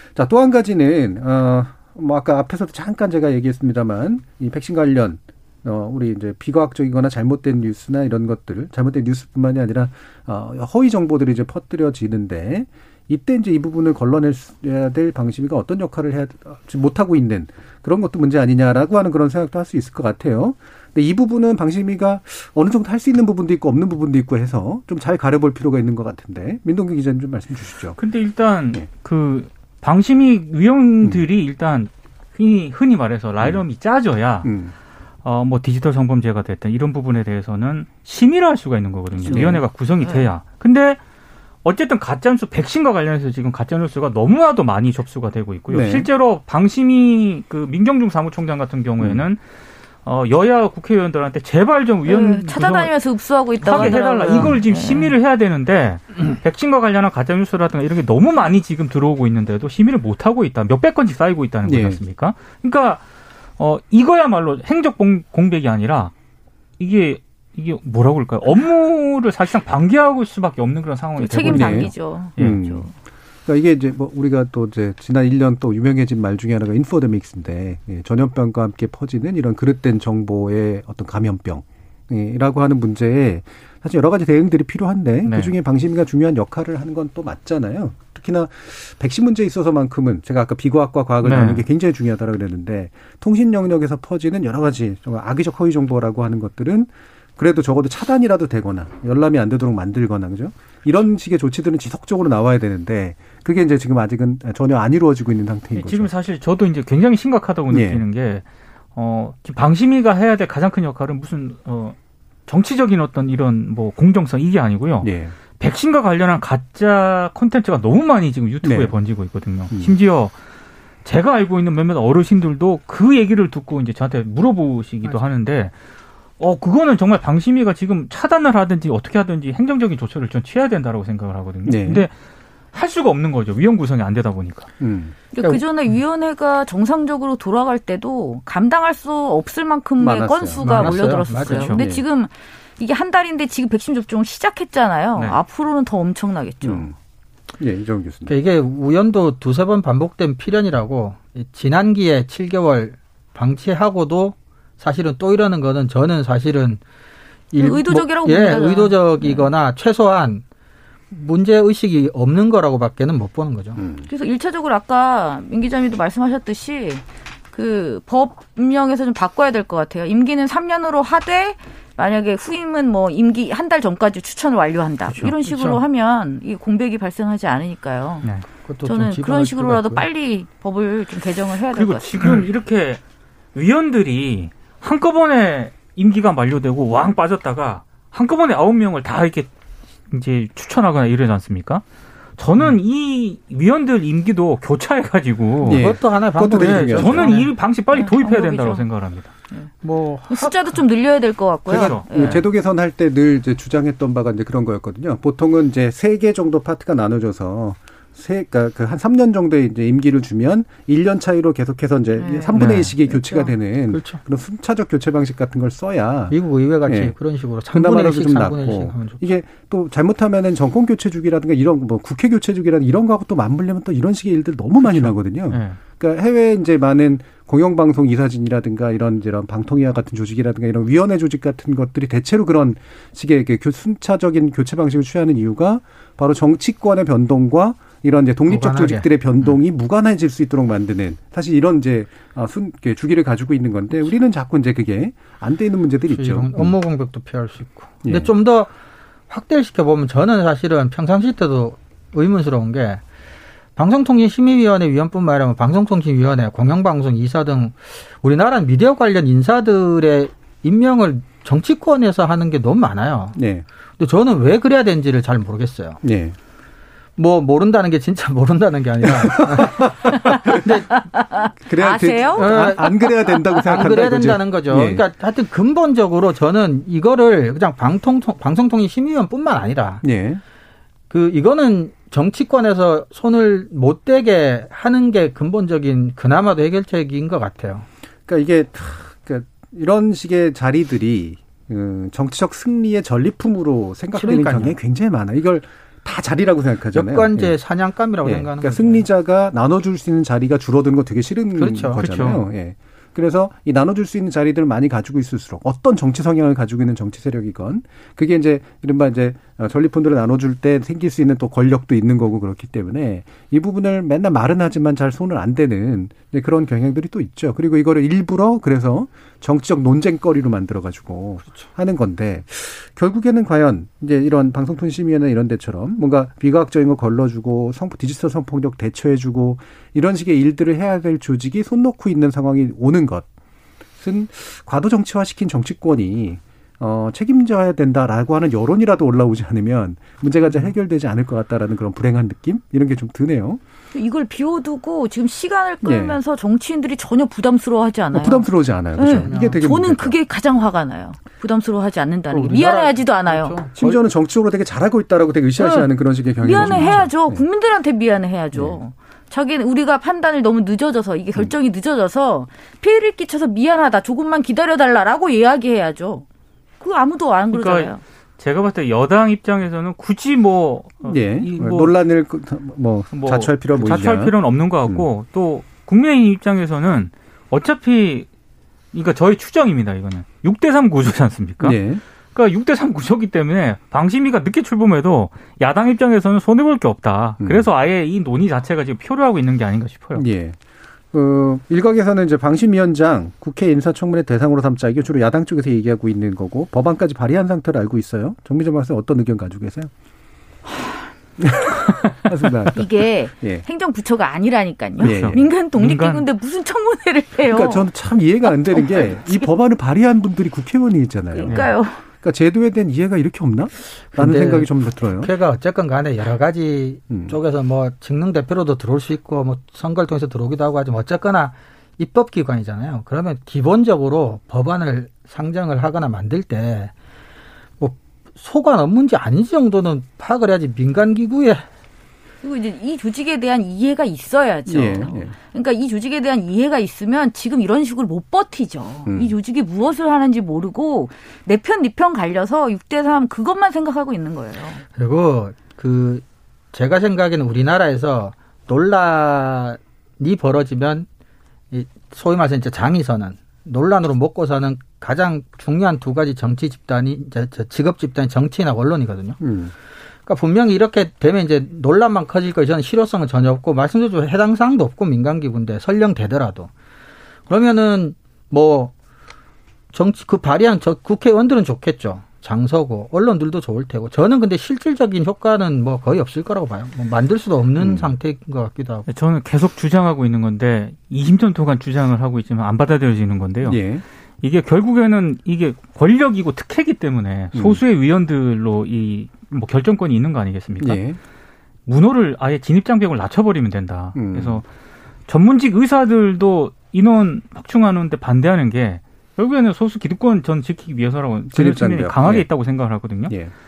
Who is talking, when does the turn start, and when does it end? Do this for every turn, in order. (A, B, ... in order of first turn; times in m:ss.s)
0:00.1-0:28.0 A
0:28.0-0:34.5 B
0:34.4-0:34.7 A
0:35.2-0:41.0 B
0:39.2-0:40.3 C
0:39.2-0:39.6 A
0:41.6-0:49.4 B
0:45.7-0:46.1 A
0:50.0-0:52.9 B
0:52.0-0:55.1 C
0:53.6-1:03.0 B
1:01.6-1:02.0 A
1:03.6-1:06.1 B
1:06.8-1:12.6 B
1:11.2-1:12.9 C
1:11.4-1:12.9 A
1:13.4-1:46.1 A
1:25.2-1:25.5 B
1:31.2-1:31.6 B
1:45.7-1:48.4 B
1:47.7-1:48.0 A
1:49.0-1:52.0 B
1:52.5-2:00.3 B
1:55.0-1:55.3 A
1:58.6-1:58.9 A
2:01.0-2:05.7 B
2:06.4-2:12.1 B
2:11.6-2:12.1 A
2:12.7-2:14.7 B
2:14.8-2:15.1 A
2:15.3-2:26.9 C
2:20.0-2:22.0 A
2:20.6-2:21.8 D
2:21.3-2:21.9 B
2:26.6-2:27.0 A
2:27.6-2:28.3 A
2:28.2-2:36.8 D
2:37.5-2:40.4 D
2:37.6-2:39.5 C
2:41.1-2:43.8 D
2:43.8-2:44.0 A
2:44.1-2:58.3 C
2:55.4-2:55.8 D
2:58.6-3:00.0 D
2:58.8-3:02.3 C
3:01.7-3:03.0 B
3:03.5-3:09.5 B
3:10.1-3:11.8 B
3:12.4-3:16.0 B
3:15.6-3:17.3 A
3:15.6-3:17.5 D
3:16.5-3:19.3 B
3:17.9-3:18.8 C
3:19.8-3:20.8 D
3:20.3-3:22.4 C
3:21.7-3:22.4 B
3:21.7-3:37.1 A
3:32.2-3:33.5 C
3:32.5-3:32.9 B
3:33.9-3:34.2 D
3:36.3-3:39.2 D
3:37.7-4:06.7 A
3:44.8-3:45.8 B
3:58.5-3:59.1 D
4:06.1-4:08.7 D
4:08.0-4:08.3 A
4:09.3-4:13.0 D
4:13.8-4:23.4 D
4:23.3-4:23.6 A
4:24.0-4:26.0 D
4:26.0-4:26.4 A
4:27.2-4:30.9 D
4:29.0-4:30.8 A
4:30.3-4:34.0 C
4:31.6-4:35.0 A
4:32.4-4:32.9 D
4:33.7-4:40.0 D
4:40.0-4:40.4 A
4:41.1-4:47.9 D
4:48.3-4:57.6 A
4:54.2-4:54.7 D
4:56.9-4:59.0 D
4:58.2-5:33.3 A
5:01.6-5:02.0 D
5:02.0-5:02.4 B
5:34.0-5:43.6 A
5:43.9-5:53.6 C
5:45.8-5:46.2 A
5:48.1-5:50.2 A
5:49.0-5:49.6 D
5:52.3-5:54.0 D
5:53.8-5:57.4 A
5:55.6-5:55.9 C
5:56.4-6:06.2 C
5:58.5-5:58.8 A
6:06.8-6:08.0 C
6:07.5-6:11.9 B
6:11.0-6:14.3 A
6:13.1-6:18.3 B
6:18.9-6:21.8 B
6:21.6-6:22.0 A
6:22.3-6:30.2 B
6:27.4-6:27.7 A
6:30.2-6:30.6 A
6:31.1-6:39.9 A
6:40.7-6:41.9 C
6:41.4-6:43.6 A
6:42.7-6:47.9 C
6:45.0-6:45.5 A
6:45.0-6:46.2 B
6:47.4-6:55.3 A
6:48.4-6:49.5 C
6:51.4-6:52.0 C
6:54.1-7:06.9 D
6:57.1-6:57.4 A
7:07.8-7:11.6 D
7:12.4-7:24.8 C
7:14.7-7:15.3 A
7:19.1-7:19.3 A
7:25.0-7:31.1 D
7:31.7-7:39.4 D
7:39.4-7:39.7 A
7:40.2-7:46.7 D
7:47.5-7:48.9 D
7:49.9-7:59.0 D
7:57.8-7:58.1 A
7:59.1-8:03.8 B
8:03.6-8:04.0 A
8:04.4-8:11.0 B
8:07.5-8:07.8 A
8:10.8-8:11.2 A
8:11.8-8:14.6 B
8:14.1-8:14.6 A
8:15.3-8:23.3 B
8:21.5-8:22.5 A